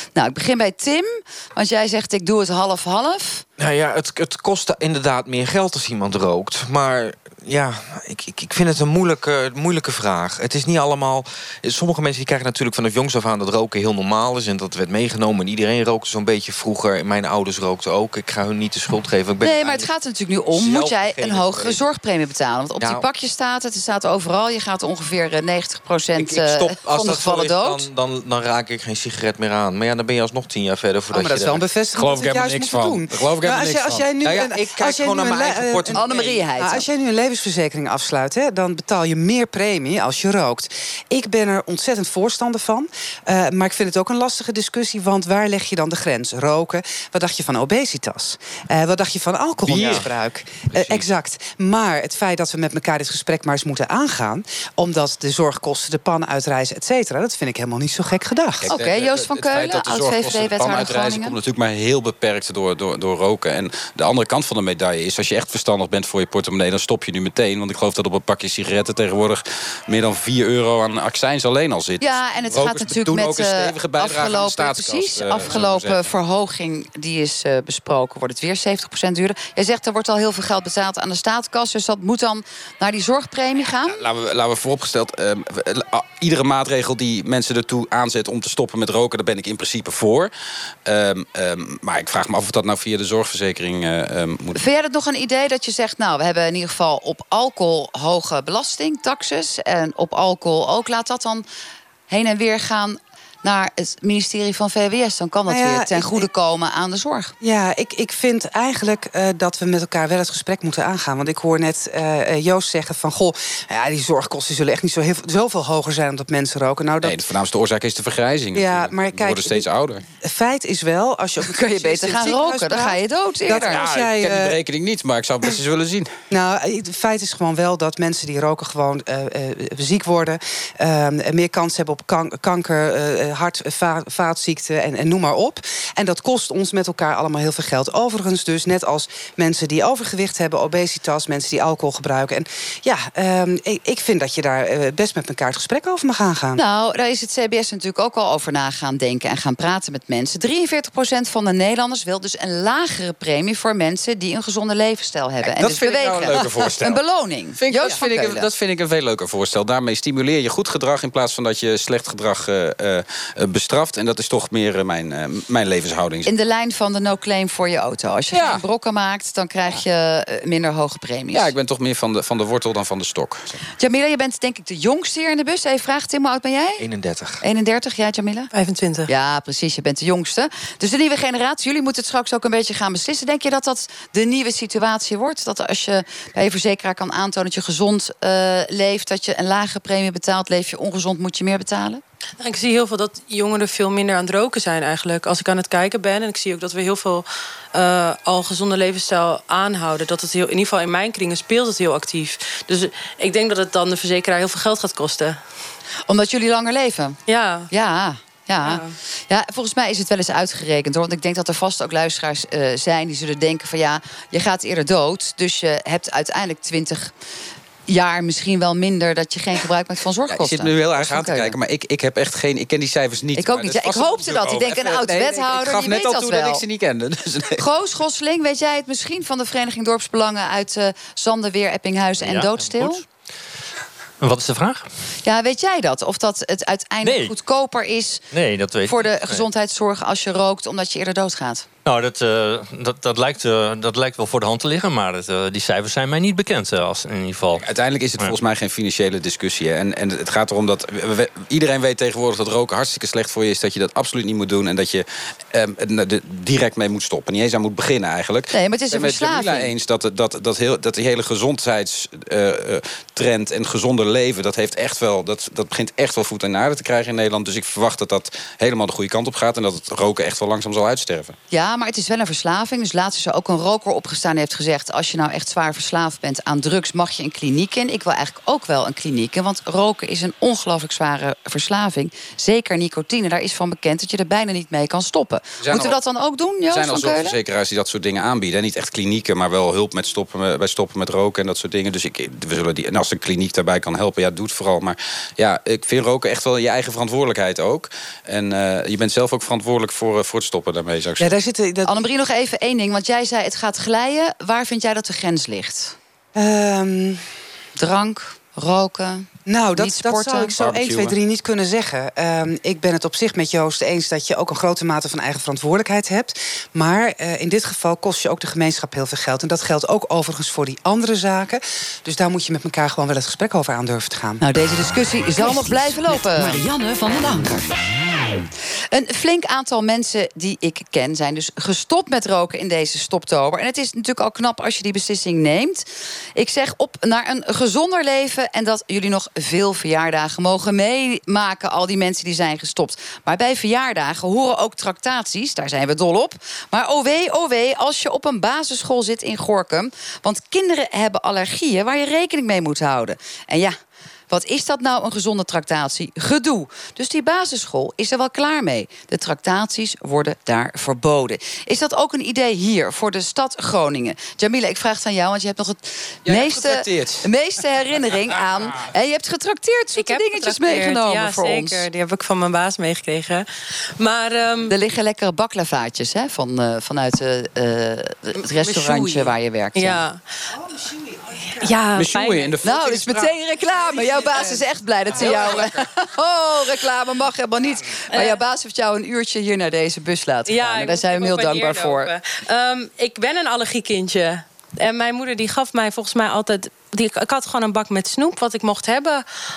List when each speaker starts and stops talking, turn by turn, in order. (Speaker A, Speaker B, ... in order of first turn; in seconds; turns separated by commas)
Speaker A: 0.1-3.4, Speaker B: 3.6-19.9, Speaker A: 19.4-27.9, Speaker C: 20.4-21.8, Speaker B: 22.8-23.1, Speaker B: 26.1-31.6, Speaker D: 31.1-58.7, Speaker C: 31.9-34.1, Speaker B: 34.2-36.3, Speaker A: 35.9-36.9, Speaker C: 49.7-50.1, Speaker B: 49.7-50.1, Speaker B: 50.7-51.1, Speaker C: 58.6-76.1, Speaker A: 58.7-61.4, Speaker A: 72.0-84.0, Speaker C: 83.9-90.3, Speaker C: 90.9-94.6, Speaker A: 94.5-101.4, Speaker A: 102.1-107.3, Speaker D: 105.5-106.2, Speaker D: 107.4-117.2, Speaker C: 117.0-120.0, Speaker D: 118.5-119.7, Speaker D: 120.2-124.6, Speaker A: 121.4-123.8, Speaker C: 123.6-126.1, Speaker D: 126.3-146.6, Speaker A: 146.6-158.5, Speaker C: 155.4-157.0, Speaker C: 157.6-166.3, Speaker A: 166.2-171.5, Speaker C: 168.3-168.6, Speaker C: 171.3-173.6, Speaker A: 173.8-176.8, Speaker B: 176.8-177.4, Speaker A: 177.4-178.5, Speaker E: 178.5-179.1, Speaker A: 179.1-192.0, Speaker E: 192.4-205.4, Speaker A: 206.1-207.2, Speaker E: 207.3-207.7, Speaker A: 207.7-217.1, Speaker E: 208.6-208.9, Speaker A: 217.9-221.6, Speaker C: 220.3-227.6, Speaker A: 223.4-226.6, Speaker A: 227.6-233.0, Speaker F: 232.2-233.1, Speaker F: 234.2-234.9, Speaker A: 235.2-238.2, Speaker F: 237.0-237.3, Speaker F: 238.3-239.4, Speaker A: 238.9-241.7, Speaker F: 241.8-247.7, Speaker C: 247.6-271.4, Speaker A: 258.5-259.7, Speaker A: 271.5-287.4, Speaker C: 285.6-286.0, Speaker C: 286.7-301.4, Speaker D: 301.2-302.0, Speaker A: 301.9-306.0, Speaker D: 306.4-307.2, Speaker A: 307.8-310.5, Speaker D: 309.5-324.4, Speaker C: 310.5-311.1, Speaker A: 324.4-326.6, Speaker G: 325.4-327.8, Speaker A: 328.9-335.9, Speaker A: 336.4-353.8, Speaker A: 354.3-371.9, Speaker C: 366.2-367.3, Speaker E: 370.0-374.8, Speaker A: 374.7-380.0, Speaker E: 378.4-380.2, Speaker E: 381.5-382.5, Speaker C: 381.9-383.4, Speaker A: 382.6-392.1, Speaker C: 383.9-384.5, Speaker C: 385.1-385.7, Speaker E: 388.1-388.4, Speaker E: 390.5-399.2